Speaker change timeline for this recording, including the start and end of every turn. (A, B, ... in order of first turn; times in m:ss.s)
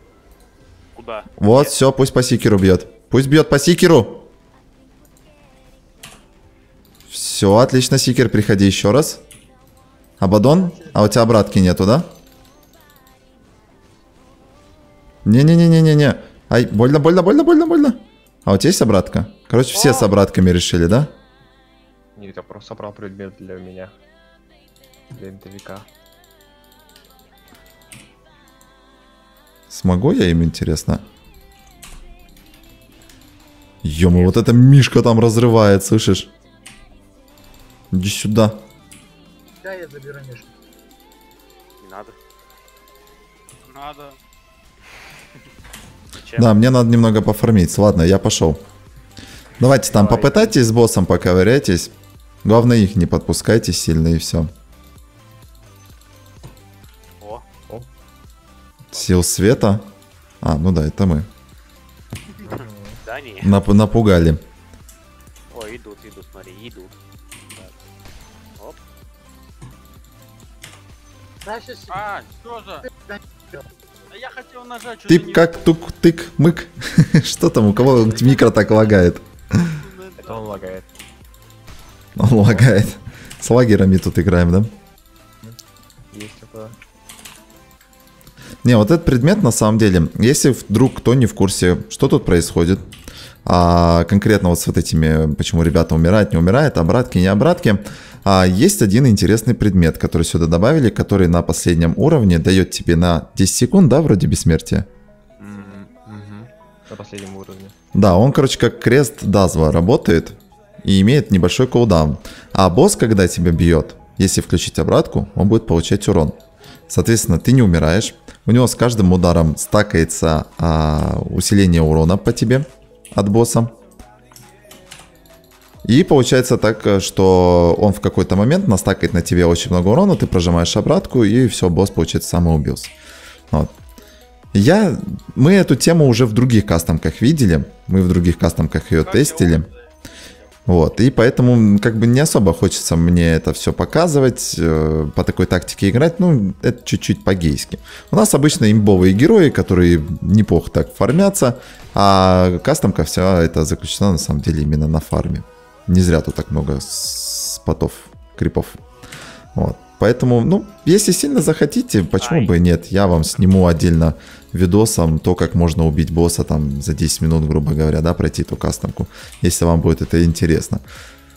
0:01.0-0:01.8 A
0:01.4-0:04.3 B
0:07.1-0:09.2 B
0:10.2-0:12.1 B
0:10.3-0:11.2 C
0:15.2-0:21.1 B
0:19.7-0:20.1 A
0:22.2-0:23.9 D
0:25.1-0:25.9 D
0:29.7-0:31.0 B
0:33.8-0:36.3 B
0:34.1-0:34.4 A
0:37.9-0:38.6 B
0:39.6-0:40.5 C
0:41.8-0:42.2 A
0:43.6-0:44.2 E
0:46.1-0:46.5 A
0:46.4-0:48.6 B
0:49.6-0:51.9 B
0:49.9-0:50.6 D
0:52.4-0:54.5 B
0:57.2-0:57.4 A
0:58.9-0:59.9 B
1:00.4-1:01.3 B
1:02.4-1:03.0 D
1:02.5-1:03.6 A
1:03.4-1:04.4 B
1:05.5-1:06.9 A
1:11.4-1:12.0 C
1:11.9-1:12.9 E
1:12.9-1:13.7 C
1:14.1-1:15.7 E
1:15.1-1:19.8 B
1:19.6-1:20.7 E
1:20.2-1:20.9 D
1:22.2-1:24.7 B
1:22.4-1:22.7 D
1:26.1-1:26.8 D
1:28.6-1:32.9 B
1:33.4-1:44.9 B
1:45.4-1:47.8 D
1:47.9-1:56.4 B
1:56.9-2:03.7 B
2:05.8-2:12.9 B
2:14.5-2:19.7 B
2:19.0-2:19.9 E
2:20.7-2:38.8 B
2:39.6-2:50.8 B
2:42.2-2:42.5 A